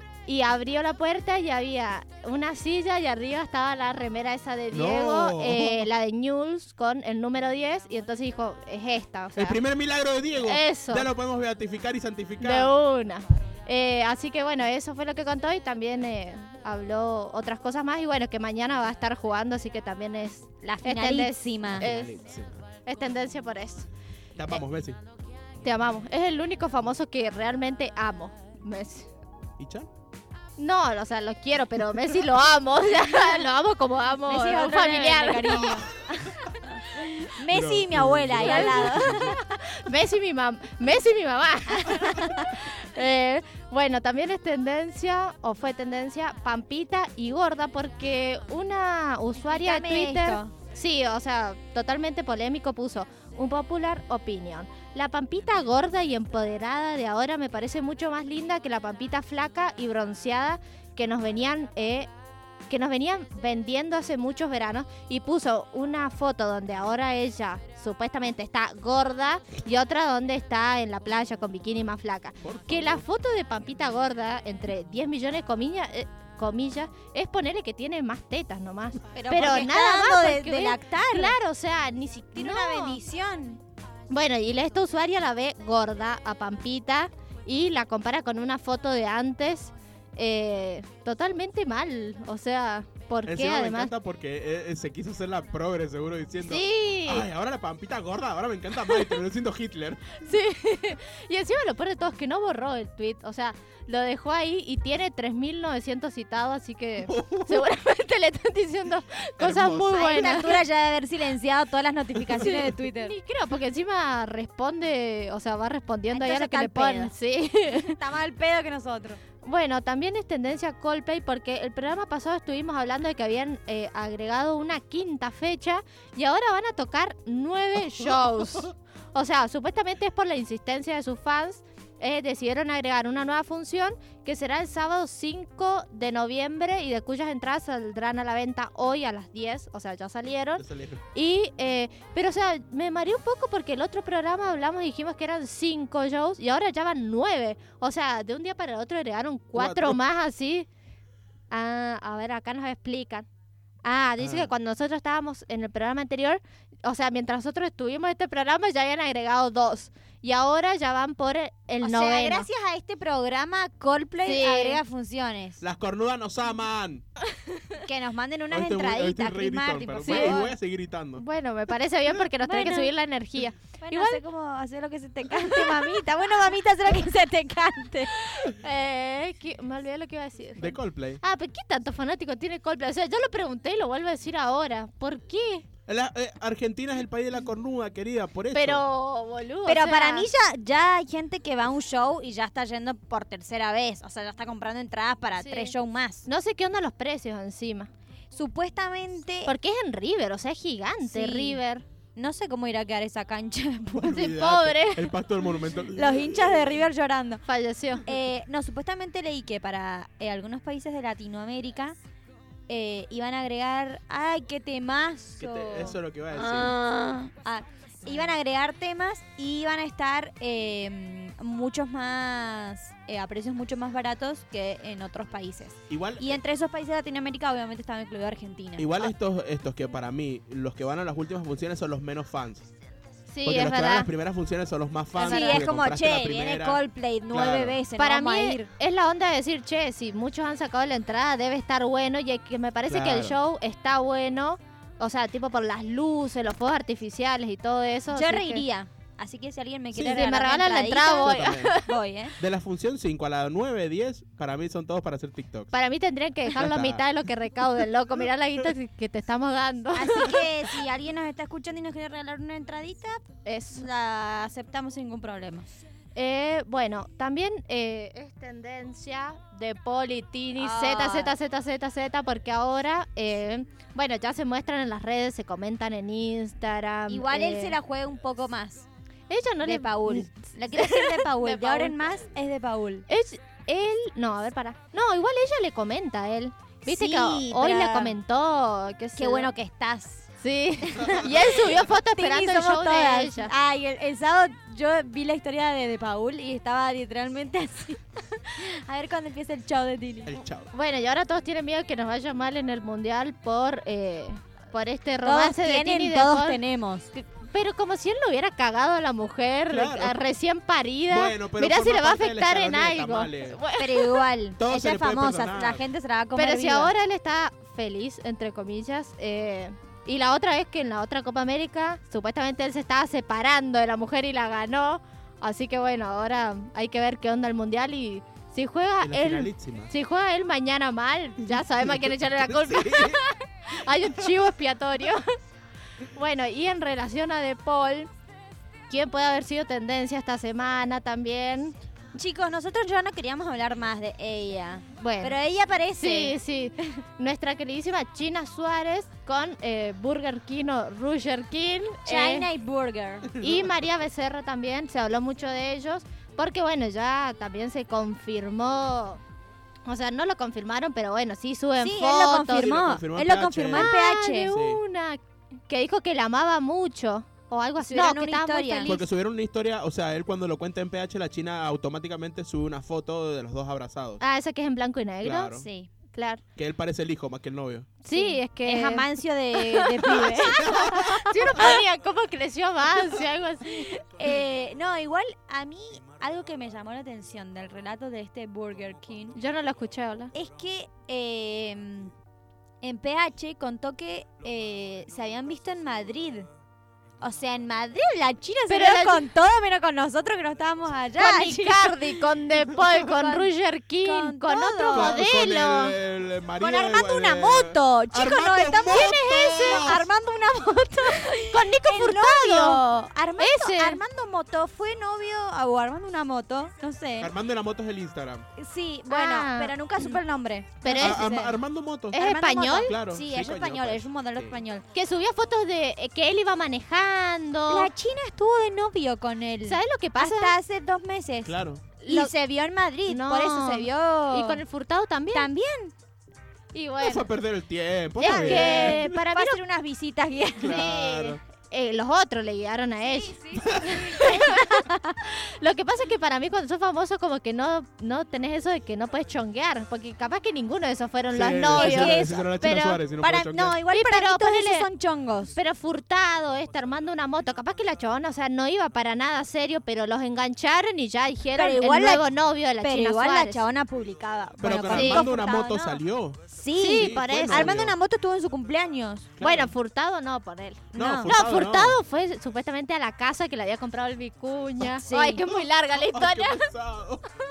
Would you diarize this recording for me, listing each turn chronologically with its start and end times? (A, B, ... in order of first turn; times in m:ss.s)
0:00.2-0:09.6 A
0:04.7-0:05.9 B
0:09.4-0:12.7 B
0:10.4-0:11.1 A
0:12.4-0:22.1 A
0:20.6-0:21.8 C
0:21.8-0:22.6 B
0:22.8-0:23.9 A
0:24.4-0:25.0 B
0:25.6-0:29.1 A
0:29.6-0:29.9 B
0:30.6-0:35.8 A
0:34.3-0:39.4 C
0:37.5-0:39.4 B
0:38.4-1:02.1 A
0:41.8-0:42.4 C
0:49.4-0:50.5 C
1:02.7-1:23.0 A
1:12.4-1:13.0 B
1:19.1-1:21.4 C
1:22.3-1:23.6 C
1:24.1-1:33.9 A
1:33.2-1:40.2 B
1:36.4-1:37.2 A
1:40.2-1:50.6 A
1:47.0-1:47.7 B
1:49.4-1:50.4 B
1:49.9-1:53.1 C
1:52.3-1:58.0 A
1:56.1-1:57.1 C
1:57.8-1:59.2 C
1:59.4-2:30.7 A
2:20.6-2:21.0 B
2:29.5-2:30.0 B
2:31.5-2:33.2 A
2:33.8-2:42.5 A
2:34.2-2:34.5 B
2:41.8-2:45.6 C
2:44.2-2:44.8 A
2:45.6-2:47.0 B
2:47.8-2:50.5 C
2:48.5-2:51.2 B
2:50.0-2:50.4 A
2:51.2-2:54.2 A
2:52.4-2:52.9 C
2:53.8-2:58.2 C
2:55.4-2:55.8 A
2:58.3-3:05.6 A
3:00.6-3:01.2 B
3:05.9-3:08.8 B
3:08.5-3:10.3 A
3:09.6-3:16.3 C
3:15.4-3:15.7 A
3:16.3-3:17.9 A
3:18.3-3:19.5 C
3:19.4-3:21.8 A
3:21.0-3:21.6 C
3:22.2-3:24.2 C
3:24.0-3:26.9 B
3:24.1-3:25.1 A
3:26.0-3:27.4 C
3:27.4-3:28.1 A
3:28.0-3:32.0 C
3:32.7-3:49.1 C
3:35.4-3:36.8 B
3:45.9-3:46.4 B
3:48.8-3:52.7 B
3:53.3-3:54.1 A
3:53.4-3:57.8 B
3:55.2-3:58.7 C
3:55.2-3:55.6 A
3:58.0-4:08.6 A
4:02.9-4:03.4 B
4:08.1-4:12.4 C
4:09.9-4:11.9 A
4:11.2-4:11.8 B
4:12.4-4:15.7 B
4:15.7-4:20.4 A
4:16.5-4:17.0 B
4:19.9-4:25.7 C
4:23.4-4:23.8 A
4:26.1-4:37.8 A
4:30.6-4:31.4 C
4:37.1-4:38.8 C
4:39.3-4:42.1 A
4:39.6-4:43.1 C
4:43.1-4:49.5 A
4:46.9-4:48.2 C
4:49.2-4:50.3 C
4:50.4-4:53.5 A
4:50.9-5:00.3 C
5:00.3-5:00.7 B
5:00.7-5:06.6 A
5:05.2-5:07.1 C
5:07.1-5:14.2 A
5:09.7-5:10.1 B
5:11.1-5:13.6 B
5:13.8-5:16.9 C
5:14.6-5:15.8 B
5:16.4-5:35.2 A
5:29.0-5:29.9 B
5:31.9-5:33.2 B
5:36.1-5:38.1 A
5:38.9-5:41.8 A
5:42.1-5:46.4 C
5:45.0-5:45.4 A
5:46.0-5:52.5 A
5:52.0-5:53.3 C
5:53.4-5:53.6 B
5:53.4-5:59.2 A
5:59.8-6:02.8 A
6:01.8-6:04.5 C
6:02.5-6:04.8 B
6:03.7-6:09.1 A
6:07.8-6:08.9 C
6:08.8-6:14.2 B
6:14.2-6:15.6 A
6:15.2-6:15.6 B
6:15.5-6:15.9 C
6:16.1-6:16.4 A
6:16.6-6:17.9 B
6:18.0-6:23.9 A
6:18.1-6:21.7 C
6:20.6-6:21.1 B
6:23.6-6:29.4 C
6:29.3-6:30.3 A
6:30.3-6:32.1 C
6:32.8-6:36.5 C
6:37.2-6:45.2 C
6:38.7-6:39.2 A
6:41.2-6:46.0 A
6:44.9-6:50.1 B
6:46.6-6:57.3 C
6:51.4-6:52.8 A
6:53.4-6:54.0 A
6:57.2-6:58.5 B
6:58.6-7:01.5 C
6:59.1-7:00.2 A
7:00.8-7:01.4 A
7:00.9-7:04.6 B
7:02.1-7:02.9 A
7:02.1-7:04.8 C
7:04.9-7:07.9 A
7:07.7-7:14.6 C
7:09.6-7:10.5 A
7:11.4-7:11.8 B
7:12.0-7:12.3 A
7:13.1-7:15.5 A
7:15.3-7:15.9 C
7:16.7-7:17.2 A
7:17.0-7:19.1 B
7:18.2-7:19.6 A
7:18.2-7:20.8 C
7:20.6-7:21.4 B
7:20.6-7:33.0 A
7:23.0-7:25.2 C
7:23.6-7:24.1 B
7:31.3-7:33.8 B
7:31.7-7:32.5 C
7:33.2-7:35.5 C
7:33.9-7:34.9 A
7:35.5-7:43.6 A
7:41.6-7:42.2 C
7:42.8-7:49.3 C
7:44.6-7:48.0 B
7:44.9-7:45.3 A
7:46.8-7:47.7 A
7:49.4-7:49.7 B
7:49.4-7:56.6 A
7:50.9-7:51.3 C
7:50.9-7:52.0 B
7:54.9-7:55.4 C
7:55.9-7:57.2 B